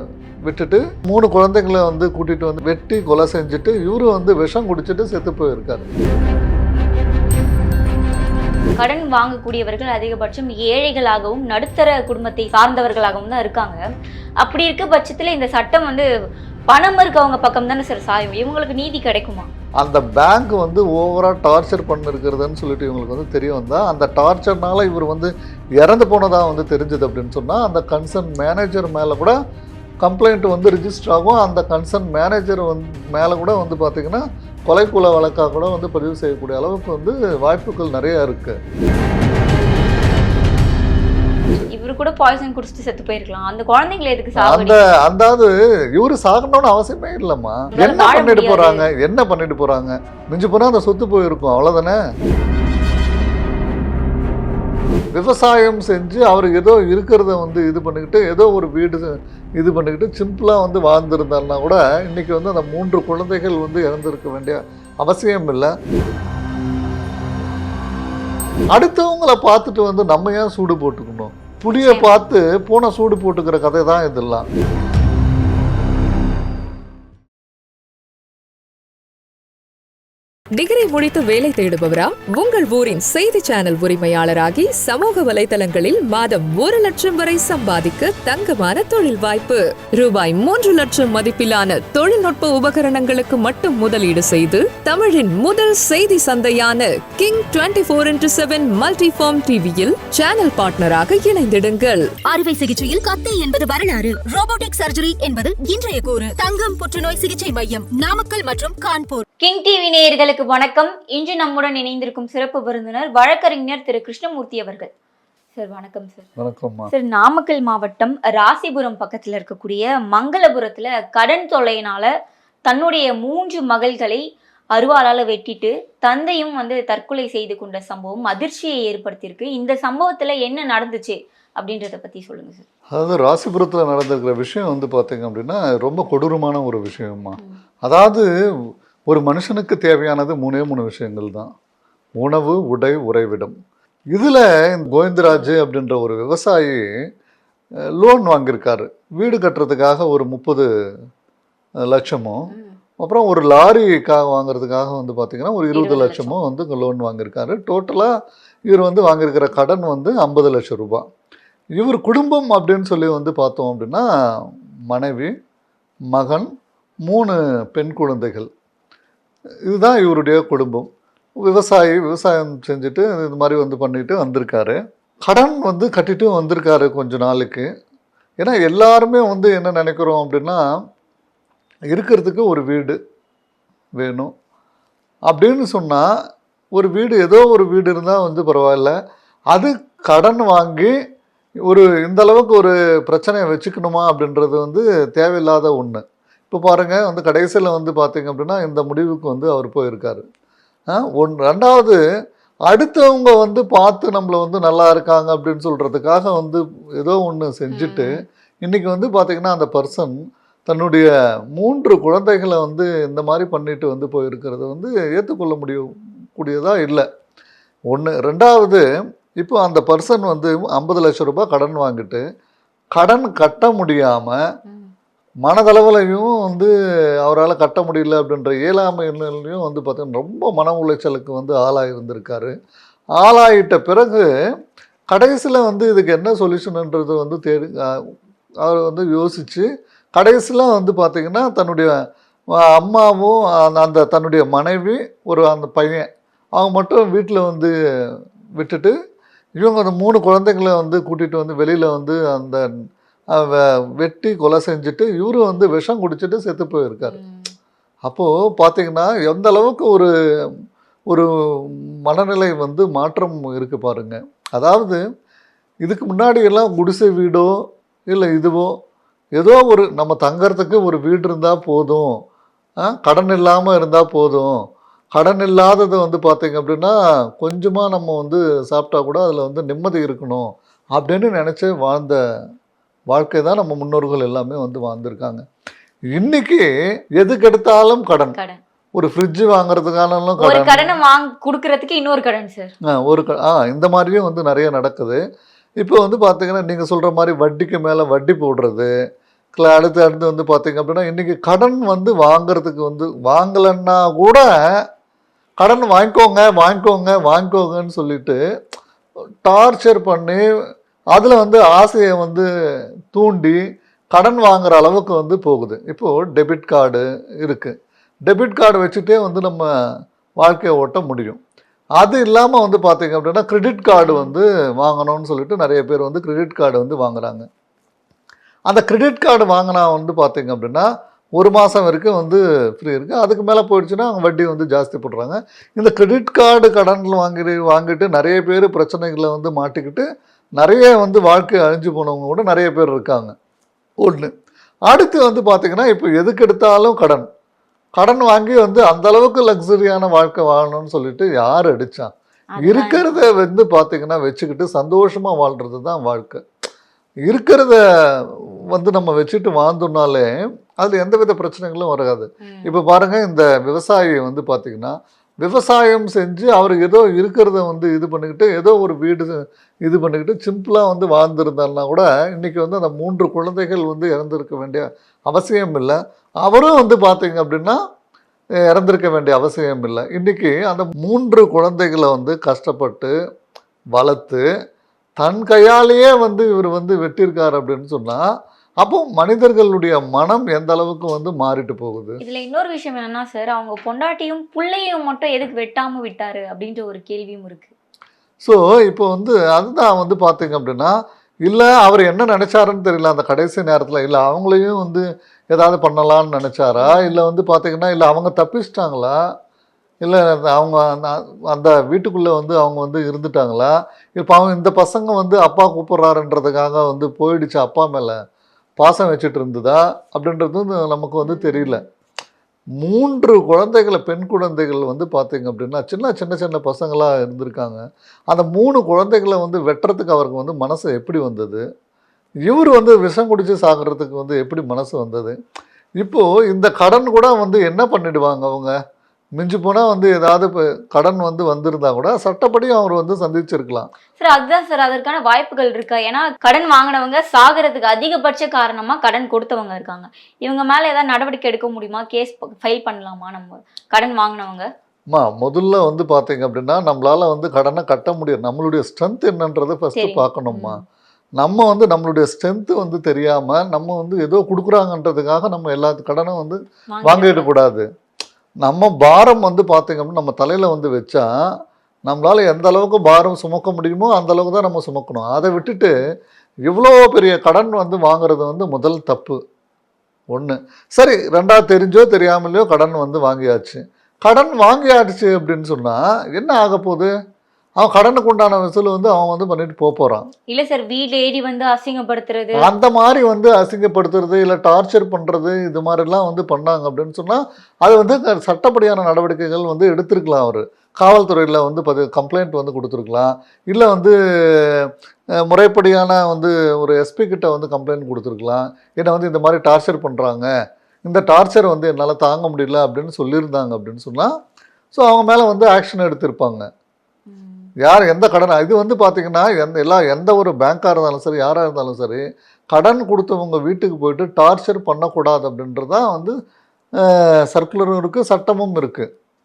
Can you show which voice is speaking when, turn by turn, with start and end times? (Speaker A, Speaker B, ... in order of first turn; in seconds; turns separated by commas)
Speaker A: 0.5-5.9, Speaker B: 8.8-13.8, Speaker B: 14.4-16.1, Speaker B: 16.7-19.5, Speaker A: 19.8-29.4, Speaker A: 30.0-38.6, Speaker B: 41.7-44.8, Speaker A: 44.4-52.0, Speaker B: 47.7-48.9, Speaker A: 55.1-65.7, Speaker A: 68.7-74.5, Speaker B: 71.8-72.2, Speaker C: 80.5-102.2, Speaker D: 102.2-109.2, Speaker B: 109.4-114.9, Speaker B: 115.6-116.3, Speaker A: 116.4-116.9, Speaker B: 116.9-122.1, Speaker B: 122.7-124.2, Speaker B: 124.8-132.6, Speaker A: 133.0-138.3, Speaker A: 139.1-141.5, Speaker A: 142.2-143.5, Speaker A: 144.1-146.8, Speaker B: 145.3-145.5, Speaker A: 148.0-150.7, Speaker A: 151.9-152.5, Speaker B: 152.5-152.8, Speaker A: 153.0-158.1, Speaker B: 155.7-156.3, Speaker A: 158.7-161.1, Speaker A: 161.8-164.1, Speaker A: 164.9-165.3, Speaker A: 166.1-166.5, Speaker A: 167.1-168.5, Speaker A: 169.7-170.9, Speaker A: 171.4-177.7, Speaker A: 178.4-180.6, Speaker A: 181.9-183.0, Speaker A: 184.0-184.3, Speaker A: 185.3-186.1, Speaker A: 186.8-188.9, Speaker A: 189.5-190.9, Speaker A: 191.7-200.2, Speaker A: 200.9-202.0, Speaker A: 202.7-217.1, Speaker B: 207.7-208.1, Speaker A: 217.9-218.8, Speaker A: 219.4-222.2, Speaker A: 223.0-224.4, Speaker B: 224.7-224.9, Speaker A: 225.4-226.7, Speaker A: 227.2-232.5, Speaker A: 233.2-234.2, Speaker A: 235.1-238.0, Speaker A: 238.7-241.9, Speaker A: 242.8-246.1, Speaker A: 246.6-247.7, Speaker A: 248.6-248.9, Speaker A: 249.6-252.6, Speaker A: 253.4-257.2, Speaker B: 257.1-257.5, Speaker A: 258.1-260.1, Speaker A: 261.1-265.0, Speaker A: 265.9-267.5, Speaker A: 268.1-268.8, Speaker A: 269.4-272.1, Speaker A: 272.9-274.6, Speaker A: 275.2-282.2, Speaker A: 283.1-285.4, Speaker A: 286.1-286.7, Speaker A: 287.2-288.4, Speaker B: 288.3-288.6, Speaker A: 289.0-290.9, Speaker B: 290.4-292.7, Speaker A: 292.9-295.2, Speaker A: 295.8-298.9, Speaker A: 299.6-304.8, Speaker A: 305.6-308.4, Speaker A: 309.4-310.4, Speaker A: 311.1-312.5, Speaker A: 313.1-313.6, Speaker A: 314.1-317.7, Speaker A: 318.3-319.7, Speaker A: 320.4-321.4, Speaker A: 322.0-327.5, Speaker B: 323.9-324.3, Speaker A: 328.7-340.1, Speaker A: 340.6-343.3, Speaker A: 344.0-344.3, Speaker A: 344.9-347.3, Speaker A: 348.0-352.1, Speaker B: 352.5-353.3, Speaker A: 352.6-356.4, Speaker A: 357.3-357.8, Speaker A: 358.7-360.3, Speaker A: 360.8-377.8, Speaker B: 362.4-362.7, Speaker A: 378.7-383.1, Speaker A: 383.9-384.4, Speaker A: 385.2-388.2, Speaker A: 388.8-392.2, Speaker B: 392.2-397.7, Speaker A: 398.4-400.9, Speaker A: 401.5-409.1, Speaker B: 406.8-407.2, Speaker A: 410.0-418.2, Speaker A: 418.8-421.8, Speaker B: 421.2-421.8, Speaker A: 422.8-427.8, Speaker A: 428.3-431.6, Speaker A: 432.5-435.4, Speaker A: 436.0-438.8, Speaker A: 439.4-443.9, Speaker B: 444.2-454.7, Speaker A: 455.1-460.8, Speaker B: 459.9-460.8, Speaker A: 461.4-467.9, Speaker B: 466.9-467.5, Speaker A: 468.6-471.3, Speaker A: 472.1-476.0, Speaker A: 476.7-479.4, Speaker A: 480.3-487.1, Speaker A: 487.8-490.3, Speaker B: 490.5-492.7, Speaker A: 492.6-504.8, Speaker A: 505.4-510.5, Speaker A: 511.1-514.3, Speaker A: 514.9-516.7, Speaker B: 517.3-517.7, Speaker A: 517.8-522.2, Speaker A: 522.7-526.4, Speaker A: 527.0-529.1